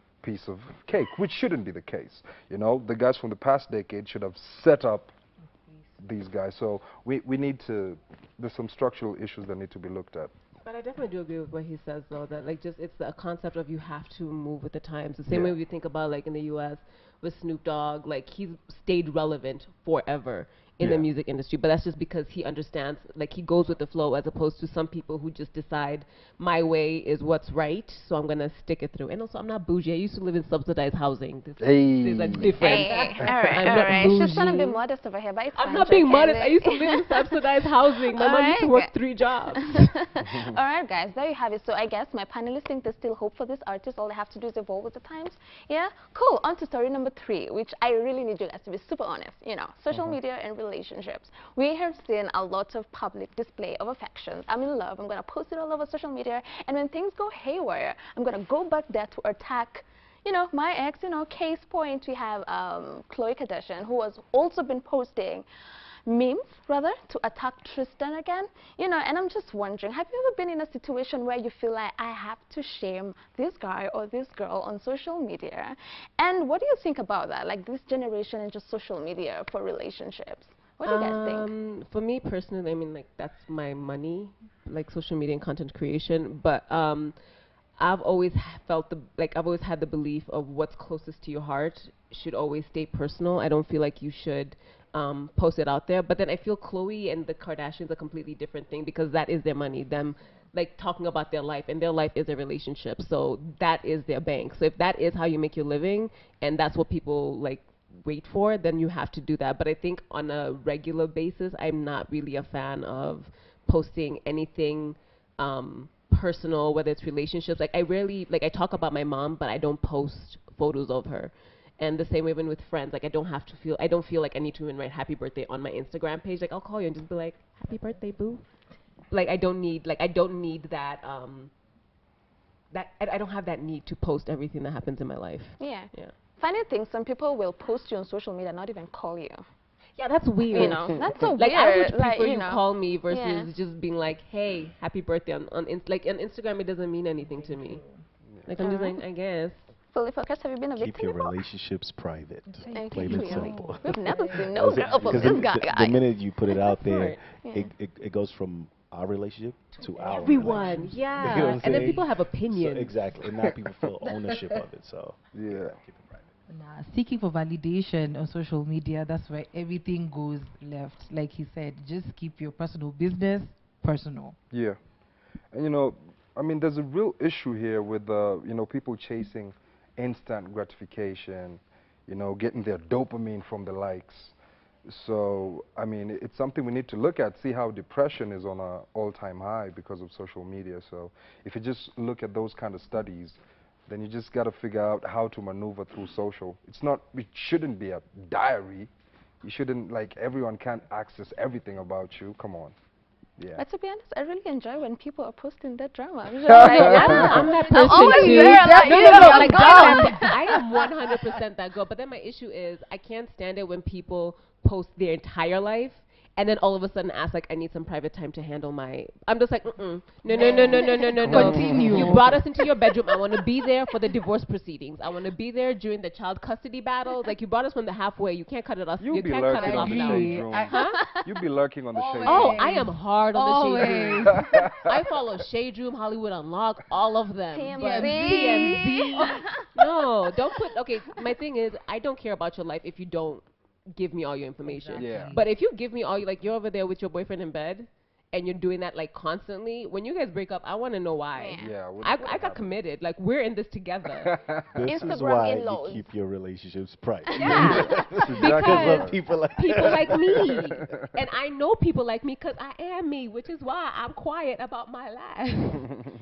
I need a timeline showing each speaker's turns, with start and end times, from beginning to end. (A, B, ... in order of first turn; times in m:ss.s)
0:00.2-0:05.1 A
0:06.0-0:10.3 A
0:10.6-0:34.8 B
0:15.3-0:15.6 A
0:20.8-0:21.1 A
0:31.6-0:33.4 A
0:32.6-0:37.5 C
0:35.6-0:39.9 B
0:38.1-0:38.9 C
0:39.6-1:05.5 C
0:40.3-0:40.5 A
1:06.1-1:21.5 C
1:20.8-1:27.2 B
1:27.8-2:08.5 B
2:09.1-2:11.5 B
2:12.7-2:16.1 B
2:15.6-2:19.4 C
2:20.0-2:27.8 B
2:20.5-2:23.5 C
2:27.3-2:28.0 D
2:28.5-2:29.7 B
2:28.6-2:29.0 C
2:29.9-2:31.4 C
2:30.8-2:46.3 E
2:32.5-2:35.3 D
2:32.8-2:36.9 C
2:36.8-2:37.2 B
2:37.4-2:37.7 C
2:39.8-2:42.0 D
2:40.1-2:43.2 B
2:45.3-2:45.8 A
2:46.5-2:54.4 D
2:54.5-2:54.8 A
2:55.5-3:04.4 A
3:04.9-3:18.9 A
3:19.4-3:22.8 A
3:23.6-3:30.6 C
3:26.5-3:27.4 A
3:26.6-3:51.0 B
3:26.8-3:30.9 D
3:40.3-3:42.4 D
3:40.4-3:41.3 C
3:41.3-3:42.2 A
3:49.0-3:52.7 A
3:49.5-3:50.8 D
3:50.9-3:51.2 C
3:51.9-3:54.7 D
3:52.2-4:14.4 B
3:54.3-3:54.9 A
3:57.5-3:59.7 C
3:57.7-3:59.6 D
4:04.6-4:05.5 D
4:05.0-4:05.4 A
4:11.4-4:11.7 C
4:11.6-4:12.6 A
4:14.2-4:14.9 A
4:14.7-4:20.5 E
4:14.9-4:16.1 C
4:17.4-4:25.9 B
4:17.4-4:17.7 C
4:17.5-4:19.2 A
4:20.1-4:21.1 A